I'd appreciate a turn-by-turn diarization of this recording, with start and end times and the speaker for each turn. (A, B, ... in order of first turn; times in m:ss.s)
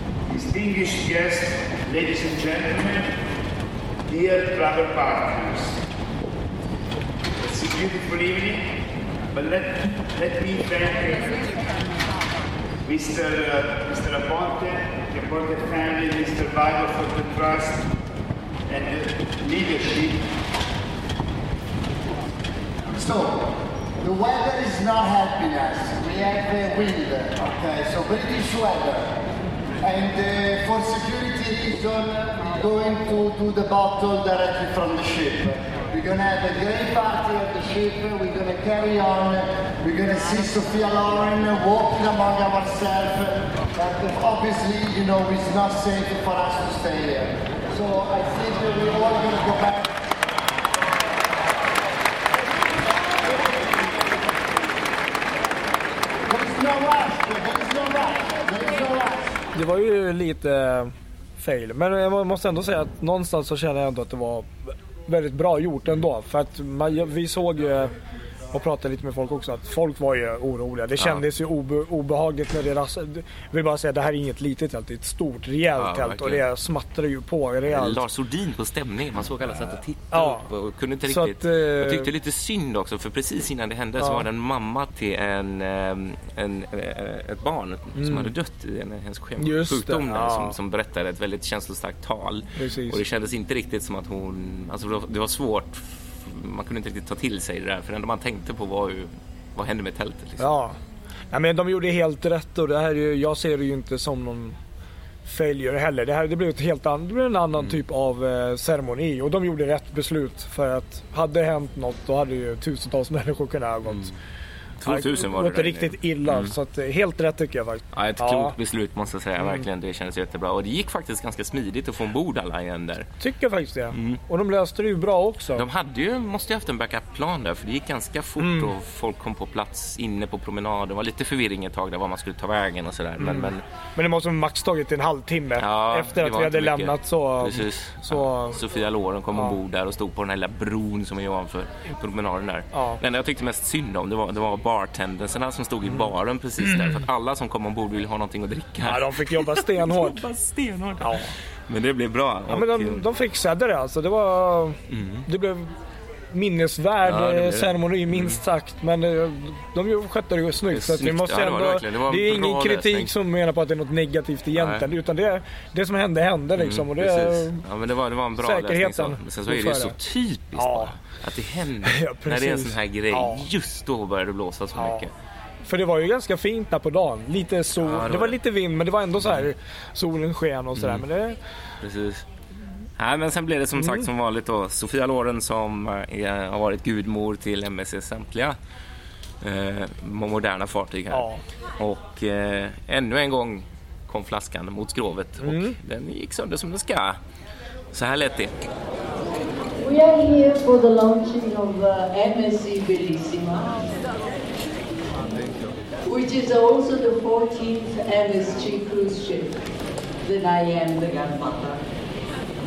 0:00.3-0:03.0 A
0:04.1-0:05.7 A
0:07.4-0:08.6 A
0:09.3-0:11.6 A
0:12.9-0:17.8 A
0:18.7-0:20.2 A
0:22.9-0:23.5 B
0:24.0-0:29.1 B
0:29.8-0:49.9 B
0:56.3-0:59.4 B
0:59.5-1:07.9 C
1:08.5-1:18.1 C
1:11.0-1:11.2 D
1:15.8-1:16.5 D
1:17.7-1:40.5 D
1:20.1-1:20.5 C
1:21.0-1:22.1 C
1:24.0-1:24.3 C
1:28.0-1:28.3 C
1:29.4-1:30.6 C
1:32.6-1:33.0 C
1:40.4-1:40.8 C
1:41.3-1:44.6 C
1:45.2-1:54.1 C
1:53.9-1:54.1 D
1:54.8-1:56.5 D
1:54.8-1:58.6 C
1:57.9-2:03.1 D
1:59.4-1:59.6 C
2:03.2-2:05.6 C
2:03.9-2:04.2 D
2:05.6-2:13.6 D
2:08.4-2:08.7 C
2:13.2-2:18.6 C
2:15.6-2:33.0 D
2:19.3-2:19.6 C
2:22.7-2:23.0 C
2:26.6-2:27.0 C
2:28.8-2:30.3 C
2:31.0-2:31.3 C
2:32.5-2:35.7 C
2:34.9-2:35.3 D
2:36.3-2:47.6 C
2:37.0-2:38.4 D
2:40.7-2:43.1 D
2:44.6-2:44.9 D
2:46.6-2:55.1 D
2:48.4-2:50.0 C
2:50.6-2:51.0 C
2:51.8-2:53.5 C
2:54.8-2:55.1 C
2:55.6-3:01.4 C
2:57.8-2:58.4 D
2:59.2-2:59.5 D
3:00.8-3:01.0 D
3:01.8-3:02.2 D
3:03.0-3:08.6 D
3:03.8-3:04.1 C
3:09.4-3:11.3 D
3:11.1-3:11.4 C
3:11.8-3:17.2 D
3:15.4-3:15.8 C
3:17.9-3:18.6 D
3:19.8-3:23.9 E
3:26.0-3:29.6 E
3:30.2-3:31.8 E